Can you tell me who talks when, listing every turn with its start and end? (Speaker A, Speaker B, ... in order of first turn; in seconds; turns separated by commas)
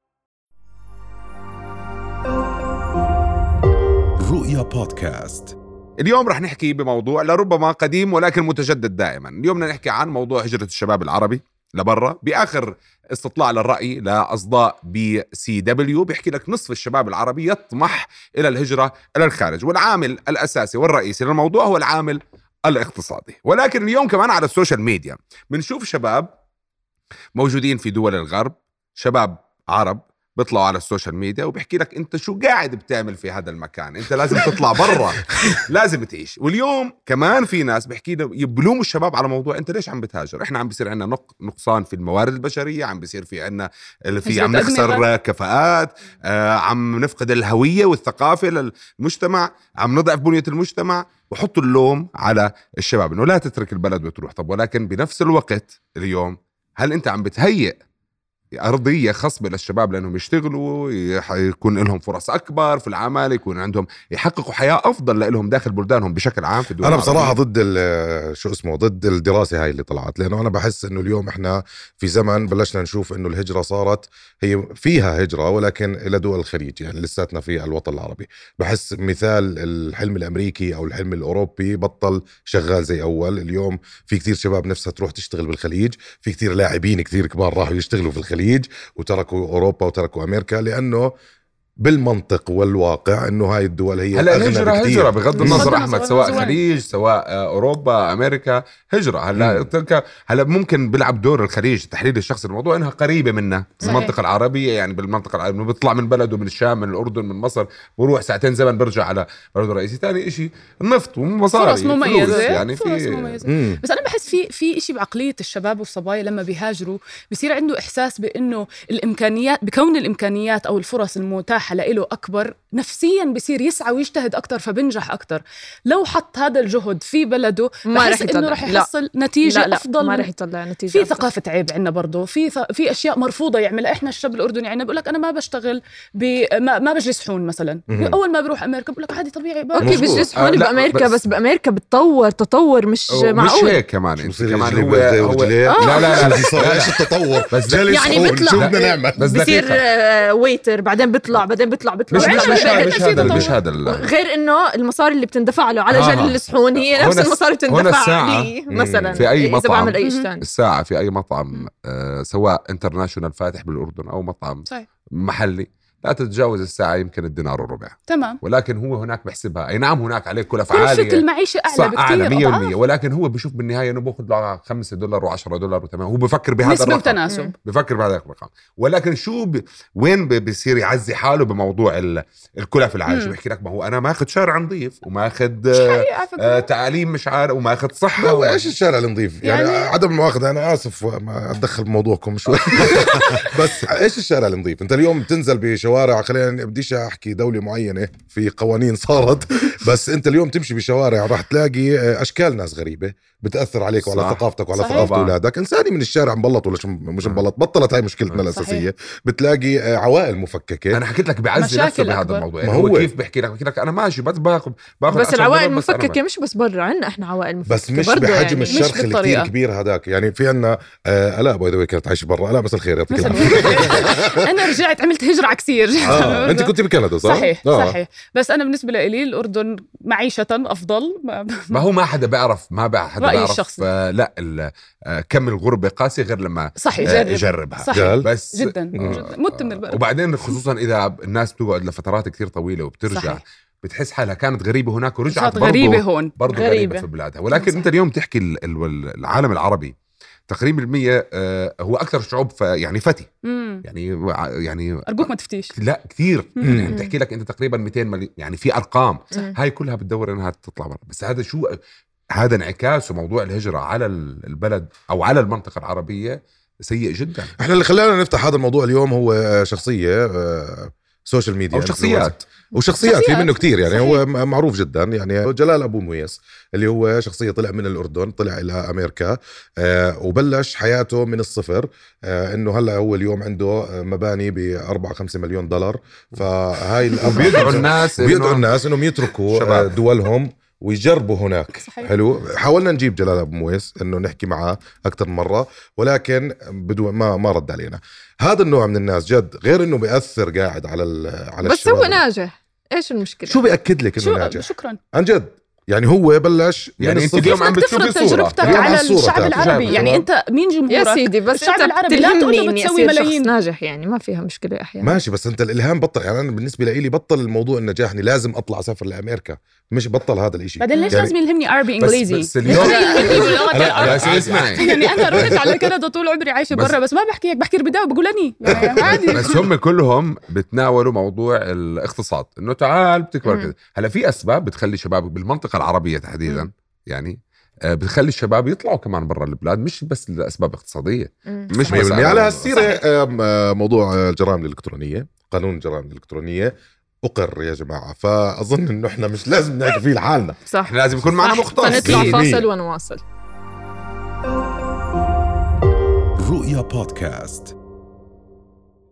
Speaker A: 4.2-5.5, Speaker B: 6.0-26.3, Speaker B: 27.3-57.8, Speaker C: 44.2-45.0, Speaker B: 58.6-67.4, Speaker D: 66.8-91.1, Speaker D: 91.8-95.7, Speaker B: 94.1-113.4, Speaker C: 95.4-96.6, Speaker D: 99.4-99.7, Speaker C: 103.8-104.1, Speaker C: 111.5-130.3, Speaker D: 113.4-113.8, Speaker E: 127.8-128.9, Speaker E: 129.4-131.3, Speaker C: 130.9-140.5, Speaker D: 137.9-138.2, Speaker E: 139.7-143.8, Speaker D: 139.8-140.3, Speaker B: 140.3-141.2, Speaker B: 143.1-149.8, Speaker D: 144.2-149.6, Speaker E: 145.7-146.6, Speaker E: 147.8-160.4, Speaker B: 152.1-154.1, Speaker C: 152.1-153.6, Speaker B: 155.9-158.6, Speaker D: 158.7-159.2, Speaker B: 159.1-188.7, Speaker C: 160.0-160.3, Speaker C: 168.1-168.4, Speaker C: 170.7-172.7, Speaker C: 176.6-177.5, Speaker E: 177.3-177.5, Speaker C: 183.1-183.3, Speaker E: 185.8-186.7, Speaker D: 188.2-211.0, Speaker C: 189.4-189.9, Speaker B: 192.5-192.9, Speaker B: 204.0-205.3, Speaker C: 204.7-205.1, Speaker C: 208.5-208.9, Speaker B: 210.9-216.2, Speaker C: 211.5-212.4, Speaker D: 212.6-213.1, Speaker E: 215.1-219.3, Speaker D: 217.7-224.5, Speaker C: 218.7-219.5, Speaker C: 223.1-231.8, Speaker B: 226.0-226.5, Speaker D: 226.0-228.0, Speaker B: 231.7-249.9, Speaker C: 233.2-233.8, Speaker C: 236.8-240.0, Speaker D: 237.9-238.3, Speaker D: 238.9-239.2, Speaker C: 243.1-243.4, Speaker C: 245.3-246.7, Speaker E: 246.5-247.0, Speaker C: 247.5-247.9, Speaker B: 250.5-253.3, Speaker C: 253.4-253.8, Speaker B: 253.8-261.8, Speaker C: 255.1-255.7, Speaker C: 256.6-256.9, Speaker E: 256.9-257.1, Speaker B: 262.4-267.5, Speaker D: 267.6-302.2, Speaker B: 271.7-272.3, Speaker C: 273.0-274.2, Speaker B: 287.2-288.7, Speaker B: 289.5-290.0, Speaker C: 291.8-292.1, Speaker E: 301.6-303.6, Speaker D: 303.4-307.6, Speaker C: 304.2-305.0, Speaker B: 307.0-310.1, Speaker C: 307.4-313.5, Speaker D: 308.6-310.2, Speaker E: 310.9-315.2, Speaker D: 315.0-321.3, Speaker C: 320.8-329.7, Speaker E: 320.9-321.2, Speaker B: 322.0-324.9, Speaker D: 322.7-325.7, Speaker E: 322.7-323.8, Speaker D: 328.6-329.4, Speaker B: 329.1-337.4, Speaker E: 333.4-333.7, Speaker B: 337.9-342.8, Speaker E: 341.5-342.1, Speaker D: 341.9-346.7, Speaker D: 347.2-350.6, Speaker E: 350.6-353.2, Speaker B: 350.9-352.5, Speaker C: 352.0-352.4, Speaker D: 352.0-352.6, Speaker A: 356.4-357.7